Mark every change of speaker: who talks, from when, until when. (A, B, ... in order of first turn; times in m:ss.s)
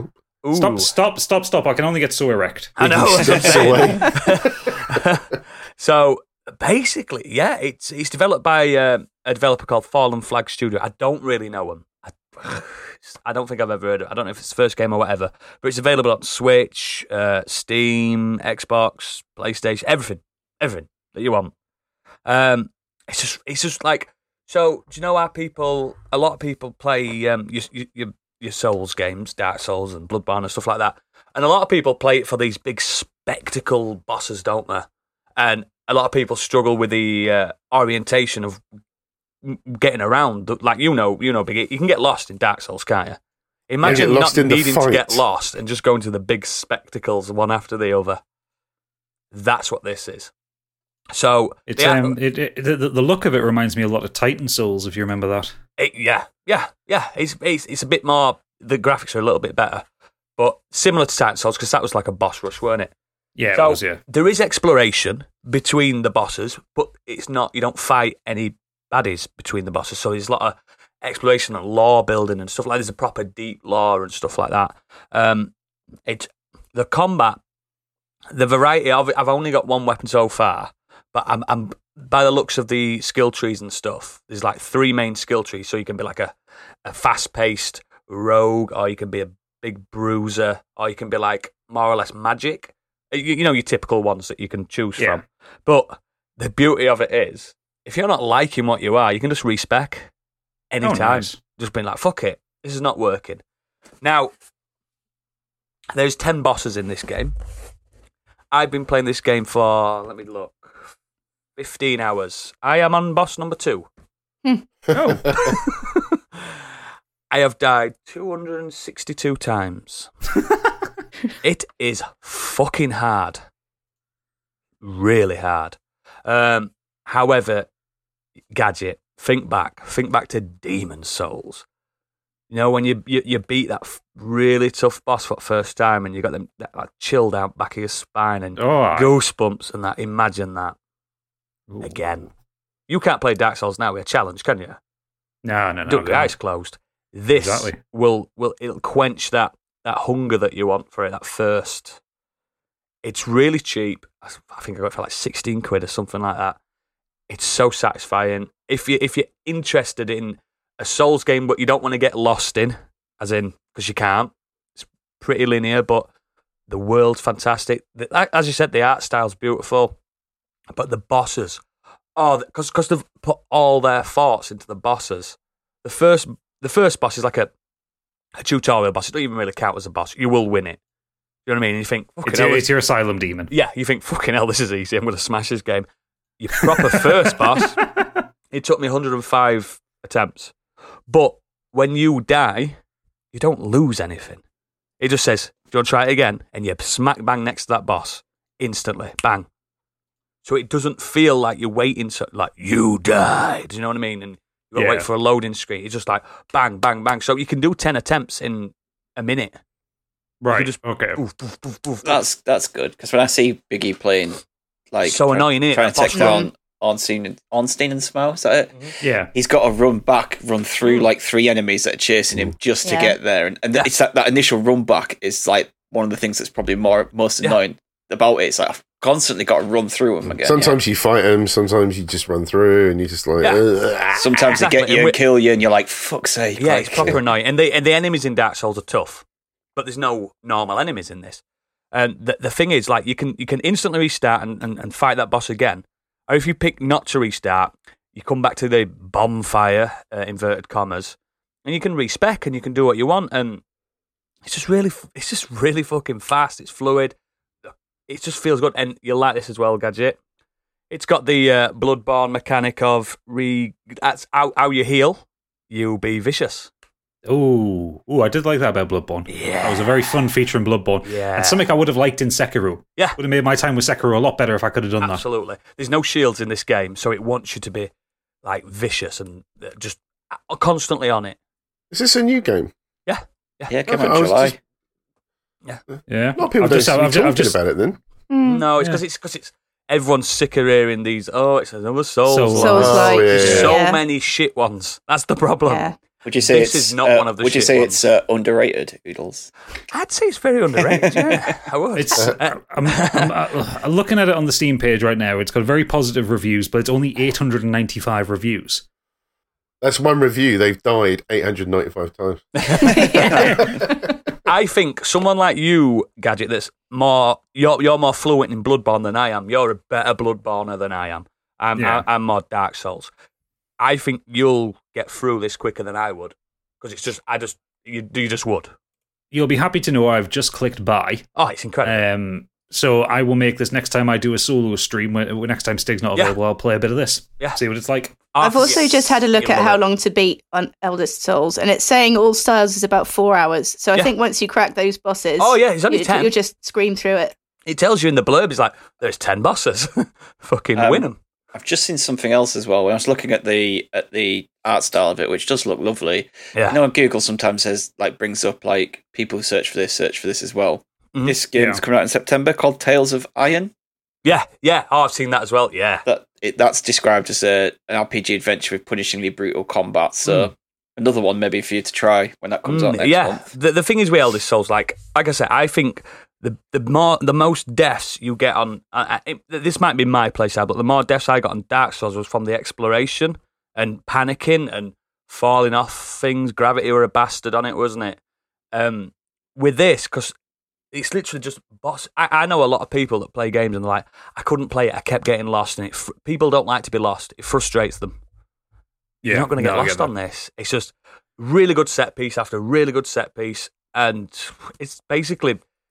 0:00.4-0:00.9 A
0:00.5-0:03.9 B
0:02.8-0:21.5 A
0:03.0-0:04.7 C
0:22.2-0:38.6 A
0:39.4-0:48.2 A
0:43.8-0:45.2 C
0:49.3-0:50.3 A
0:51.1-0:52.2 A
0:51.7-0:55.5 B
0:55.8-0:59.8 A
1:00.4-1:02.9 A
1:03.4-1:04.0 B
1:03.5-1:15.5 A
1:16.1-1:17.4 A
1:18.3-1:40.1 A
1:35.0-1:35.2 B
1:40.7-1:43.4 A
1:40.8-1:41.4 B
1:44.0-1:44.3 A
1:45.9-1:47.3 A
1:48.5-1:50.9 A
1:51.6-1:53.9 A
1:54.9-1:55.5 B
1:55.3-1:56.2 A
1:57.3-2:00.1 A
2:01.4-2:03.4 A
2:04.8-2:07.7 A
2:08.5-2:11.6 A
2:12.5-2:20.8 A
2:18.6-2:19.1 B
2:21.7-2:22.0 B
2:21.8-2:22.3 A
2:22.9-2:24.8 A
2:25.4-2:26.3 B
2:25.9-2:32.0 A
2:27.4-2:27.8 B
2:33.0-2:36.6 A
2:37.3-2:46.1 A
2:46.7-2:50.0 A
2:50.7-2:51.6 A
2:52.2-2:57.5 A
2:58.4-3:00.8 A
3:01.5-3:02.7 A
3:02.2-3:03.5 B
3:03.5-3:05.9 A
3:06.4-3:07.8 A
3:08.5-3:10.5 A
3:11.1-3:12.8 A
3:13.3-3:14.4 A
3:15.0-3:19.5 A
3:20.4-3:29.6 A
3:24.8-3:25.1 B
3:30.4-3:31.2 B
3:30.5-3:32.2 A
3:32.0-3:34.4 D
3:34.9-3:50.8 D
3:35.0-3:36.4 A
3:36.1-3:36.5 E
3:39.0-3:39.3 B
3:42.8-3:43.2 E
3:50.3-3:54.4 C
3:54.2-3:57.2 D
3:54.3-3:55.2 A
3:56.6-3:59.2 A
3:59.8-4:01.4 A
4:01.9-4:13.6 A
4:14.4-4:17.2 A
4:18.1-4:20.2 A
4:20.9-4:26.7 A
4:27.3-4:35.2 B
4:29.3-4:30.0 A
4:31.0-4:31.7 A
4:35.0-4:37.9 A
4:38.4-4:41.4 A
4:41.9-4:42.7 C
4:43.1-4:43.8 A
4:43.7-4:44.6 D
4:43.9-4:44.6 C
4:46.1-4:47.6 B
4:46.4-4:48.0 C
4:48.3-4:48.7 E
4:48.4-4:55.9 A
4:52.3-4:53.7 B
4:52.6-4:54.0 E
4:52.8-4:53.8 C
4:55.7-4:56.0 E
4:56.2-4:59.5 D
4:56.4-4:58.0 A
4:59.9-5:03.4 A
5:00.9-5:01.4 D
5:02.0-5:08.8 B
5:09.8-5:14.0 C
5:12.6-5:13.7 A
5:12.8-5:14.0 E
5:13.4-5:13.7 B
5:14.4-5:23.1 A
5:21.8-5:22.0 B
5:23.8-5:28.7 A
5:29.3-5:31.2 B
5:31.4-5:32.0 A
5:31.8-5:38.3 B
5:38.3-5:39.8 A
5:38.4-5:47.3 E
5:45.4-5:46.3 A
5:47.7-5:51.2 A
5:50.8-6:03.7 D
5:56.6-5:56.8 A
6:01.6-6:01.8 B
6:04.2-6:06.0 A
6:06.1-6:13.5 D
6:12.7-6:28.2 A
6:28.7-6:30.4 A
6:30.9-6:38.2 A
6:39.2-6:40.1 B
6:39.3-6:45.6 A